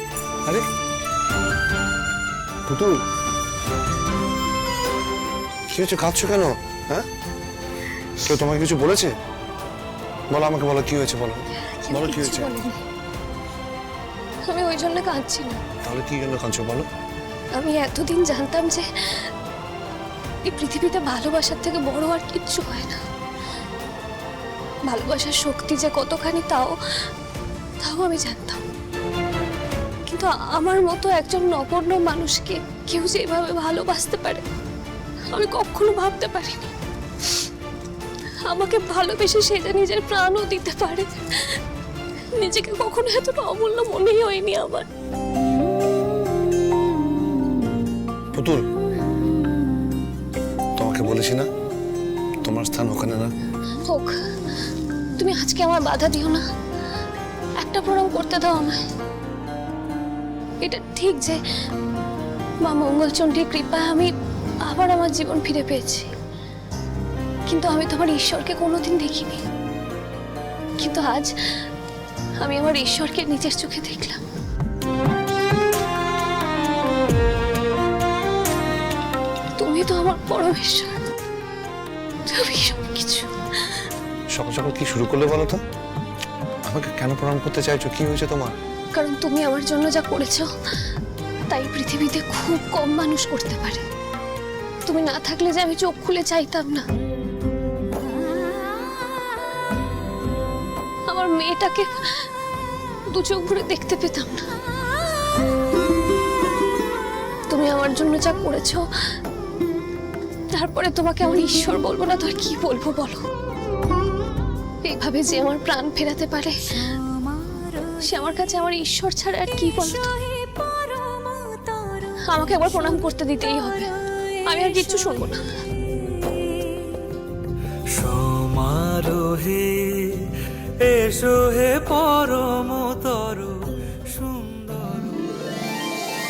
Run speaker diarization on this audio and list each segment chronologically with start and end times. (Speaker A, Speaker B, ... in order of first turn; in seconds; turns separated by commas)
Speaker A: 2.6-3.0, Speaker A: 5.7-7.1, Speaker A: 8.2-9.1, Speaker A: 10.3-12.5, Speaker B: 11.6-12.8, Speaker B: 14.5-15.6, Speaker A: 15.8-16.9, Speaker B: 17.5-19.3, Speaker B: 20.4-23.0, Speaker B: 24.9-27.0, Speaker B: 27.8-28.6, Speaker B: 30.0-34.4, Speaker B: 35.3-36.7, Speaker B: 38.5-41.6, Speaker B: 42.3-44.9, Speaker A: 48.3-48.6, Speaker A: 50.8-51.5, Speaker A: 52.4-53.3, Speaker B: 53.8-54.1, Speaker B: 55.2-56.4, Speaker B: 57.6-58.8, Speaker B: 60.6-61.4, Speaker B: 62.6-64.1, Speaker B: 64.6-66.1, Speaker B: 67.5-69.4, Speaker B: 70.8-71.3, Speaker B: 72.4-74.2, Speaker B: 79.5-81.0, Speaker B: 82.3-83.8, Speaker A: 84.3-85.6, Speaker A: 86.6-88.5, Speaker B: 88.9-90.5, Speaker B: 91.5-93.8, Speaker B: 94.8-96.8, Speaker B: 101.1-102.3, Speaker B: 103.1-104.5, Speaker B: 107.5-108.9, Speaker B: 110.5-113.2, Speaker B: 114.8-116.9, Speaker B: 117.8-120.2, Speaker B: 122.2-125.5, Speaker C: 128.1-129.9, Speaker C: 130.9-133.6, Speaker C: 134.1-135.4